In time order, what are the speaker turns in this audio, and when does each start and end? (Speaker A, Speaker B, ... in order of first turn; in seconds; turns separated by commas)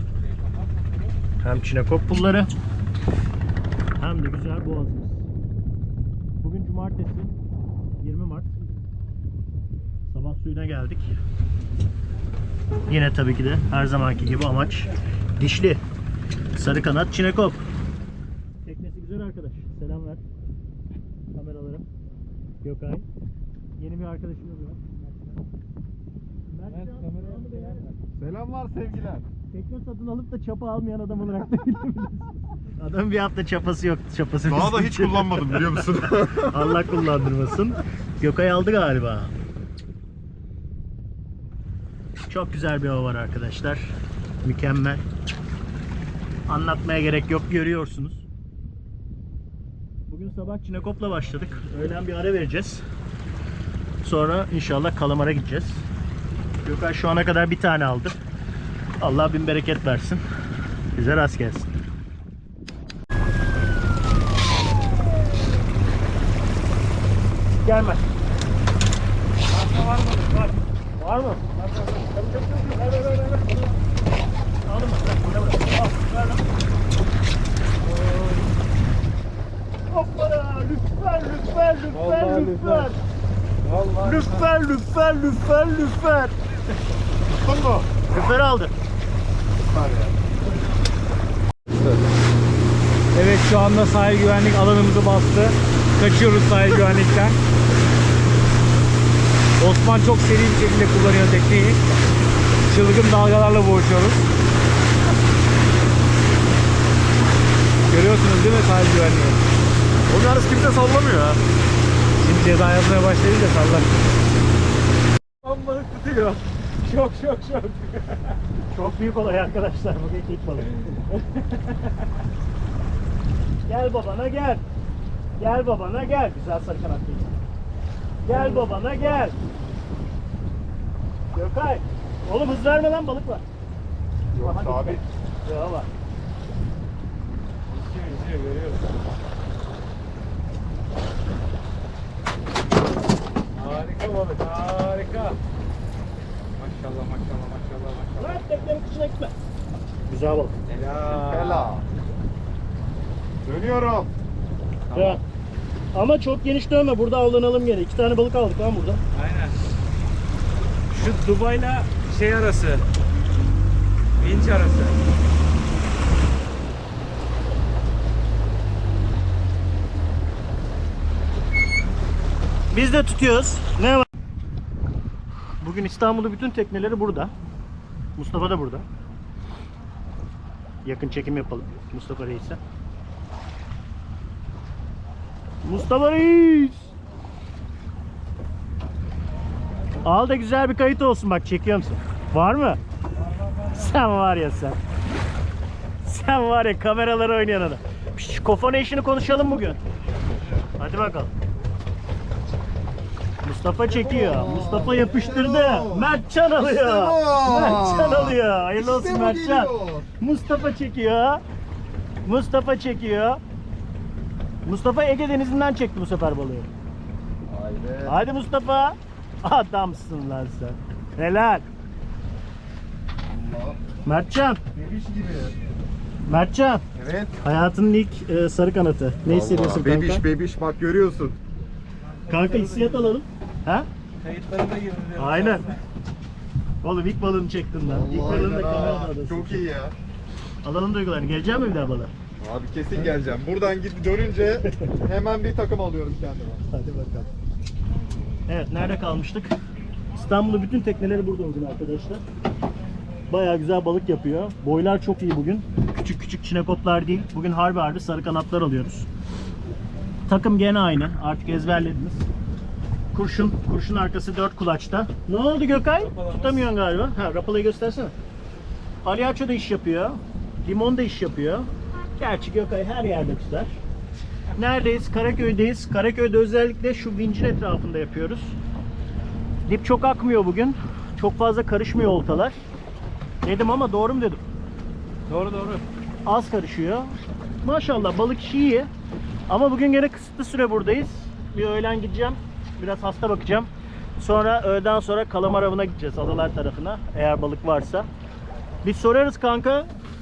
Speaker A: 0.2-1.1, Speaker B: 1.4-2.5, Speaker B: 4.0-5.2, Speaker B: 6.4-7.3, Speaker B: 8.0-8.6, Speaker B: 10.1-11.1, Speaker B: 12.9-15.8, Speaker B: 16.6-17.6, Speaker B: 18.6-20.2, Speaker B: 21.3-21.9, Speaker B: 22.6-23.1, Speaker B: 23.8-24.9, Speaker B: 26.5-27.9, Speaker A: 26.7-27.9, Speaker C: 28.2-29.3, Speaker B: 29.5-35.9, Speaker C: 34.5-36.9, Speaker B: 36.4-39.3, Speaker B: 42.3-43.9, Speaker B: 44.4-45.0, Speaker B: 46.5-48.2, Speaker B: 50.1-52.8, Speaker A: 51.2-51.7, Speaker B: 54.0-55.8, Speaker B: 56.6-58.2, Speaker B: 59.0-60.2, Speaker B: 61.0-61.7, Speaker B: 67.6-68.0, Speaker A: 69.5-70.7, Speaker B: 71.0-71.4, Speaker A: 71.5-73.8, Speaker B: 74.7-76.4, Speaker A: 77.8-78.5, Speaker B: 79.9-83.0, Speaker A: 81.9-83.0, Speaker A: 83.6-84.5, Speaker B: 84.0-86.3, Speaker C: 87.3-87.9, Speaker B: 88.1-88.7, Speaker C: 89.7-90.2, Speaker C: 91.7-92.0, Speaker A: 93.1-97.4, Speaker A: 99.6-101.8, Speaker A: 102.7-104.3, Speaker A: 107.9-109.4, Speaker C: 110.1-111.4, Speaker A: 112.2-114.1, Speaker A: 115.4-118.4, Speaker B: 118.7-120.9, Speaker A: 120.8-122.0, Speaker B: 123.7-124.6, Speaker B: 125.4-127.4, Speaker B: 128.2-129.4, Speaker B: 131.3-133.4, Speaker C: 134.3-135.0, Speaker B: 134.4-135.9, Speaker A: 137.7-138.9, Speaker A: 143.6-145.4, Speaker A: 146.6-148.7, Speaker B: 148.2-149.3, Speaker B: 150.1-150.6, Speaker A: 150.7-151.7, Speaker C: 151.0-151.8, Speaker C: 153.4-154.1, Speaker A: 154.9-155.2, Speaker B: 154.9-155.2, Speaker B: 155.9-159.0, Speaker A: 159.1-159.6, Speaker A: 160.9-162.9, Speaker A: 164.2-165.0, Speaker B: 172.7-174.1, Speaker B: 175.6-177.3, Speaker B: 178.2-178.8, Speaker B: 180.8-182.6, Speaker B: 185.6-186.9, Speaker B: 190.0-192.8, Speaker A: 193.4-193.9, Speaker B: 193.7-194.8, Speaker B: 196.0-199.8, Speaker B: 200.8-201.3, Speaker B: 203.4-211.4, Speaker C: 203.9-210.1, Speaker A: 204.9-205.3, Speaker B: 212.2-213.4, Speaker B: 214.6-216.7, Speaker C: 217.5-218.2, Speaker B: 218.1-221.7, Speaker C: 223.3-223.8, Speaker B: 224.1-224.6, Speaker C: 224.7-225.6, Speaker B: 226.3-226.8, Speaker C: 226.9-227.3, Speaker B: 227.4-230.2, Speaker C: 229.2-231.4, Speaker A: 232.1-233.2, Speaker B: 232.3-233.9, Speaker A: 234.2-235.8, Speaker B: 235.2-235.7, Speaker B: 236.8-239.7, Speaker C: 237.8-239.9, Speaker B: 240.6-242.1, Speaker C: 242.4-246.6, Speaker B: 246.7-247.3, Speaker B: 248.5-249.5, Speaker B: 250.2-252.2, Speaker B: 253.3-259.1, Speaker B: 260.3-262.2, Speaker B: 263.1-268.1, Speaker A: 265.9-266.7, Speaker B: 269.0-273.7, Speaker B: 274.6-278.6, Speaker B: 279.7-282.6, Speaker B: 283.4-284.4, Speaker A: 285.3-285.8, Speaker B: 286.3-288.9, Speaker B: 289.5-298.1, Speaker B: 298.8-299.9